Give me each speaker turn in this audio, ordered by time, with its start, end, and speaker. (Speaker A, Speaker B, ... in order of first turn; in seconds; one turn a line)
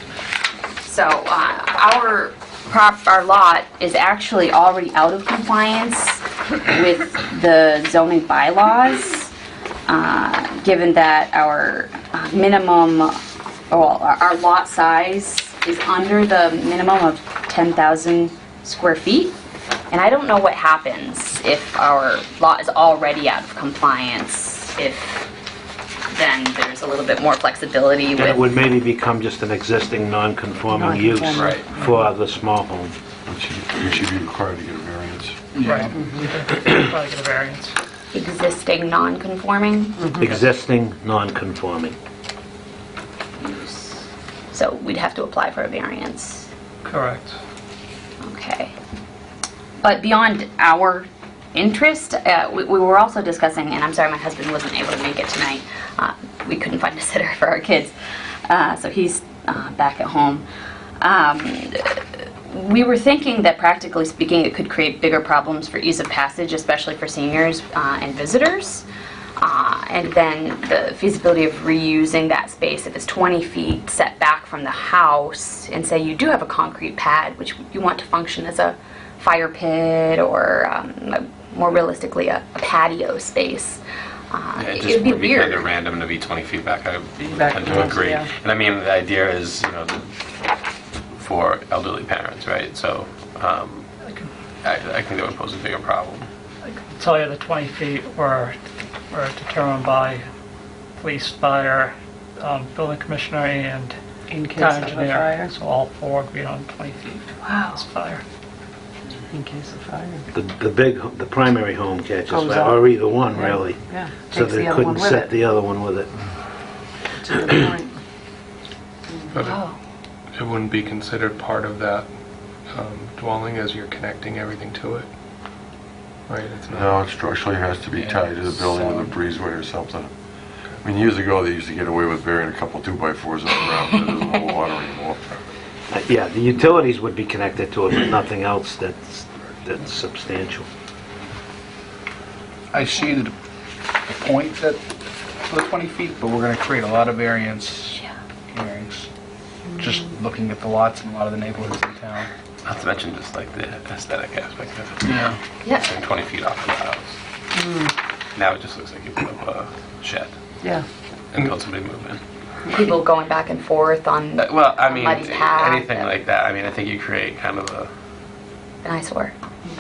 Speaker A: 0.8-9.3
Speaker A: 9.9-13.2
Speaker A: 13.7-19.4
Speaker A: 19.9-25.3
Speaker A: 26.1-28.4
Speaker B: 28.1-32.9
Speaker C: 30.7-32.0
Speaker D: 31.3-31.6
Speaker E: 33.2-35.5
Speaker F: 35.5-36.0
Speaker G: 35.6-37.7
Speaker A: 38.1-40.1
Speaker B: 40.2-41.9
Speaker A: 43.4-46.5
Speaker G: 46.8-47.3
Speaker A: 48.2-48.7
Speaker A: 49.8-57.9
Speaker A: 58.5-60.5
Speaker A: 61.0-68.8
Speaker A: 69.4-85.7
Speaker D: 84.6-90.1
Speaker C: 87.2-88.3
Speaker D: 91.2-93.8
Speaker D: 94.6-96.3
Speaker G: 96.6-98.5
Speaker G: 99.1-100.2
Speaker G: 101.0-104.0
Speaker C: 104.3-105.5
Speaker G: 104.5-108.2
Speaker C: 109.3-110.2
Speaker B: 110.3-116.1
Speaker C: 112.3-115.3
Speaker C: 117.2-117.9
Speaker H: 119.3-119.6
Speaker A: 119.4-119.8
Speaker H: 120.3-122.1
Speaker H: 122.7-125.1
Speaker H: 126.3-127.0
Speaker E: 126.7-130.1
Speaker F: 128.0-129.1
Speaker E: 130.8-135.4
Speaker B: 135.9-140.7
Speaker F: 142.7-143.3
Speaker F: 144.0-144.8
Speaker F: 145.4-149.1
Speaker F: 149.8-152.3
Speaker D: 152.6-157.1
Speaker F: 155.0-155.4
Speaker A: 155.6-155.9
Speaker C: 157.6-157.9
Speaker D: 158.3-160.3
Speaker D: 161.3-162.2
Speaker A: 162.7-166.1
Speaker D: 164.4-167.9
Speaker A: 168.8-169.3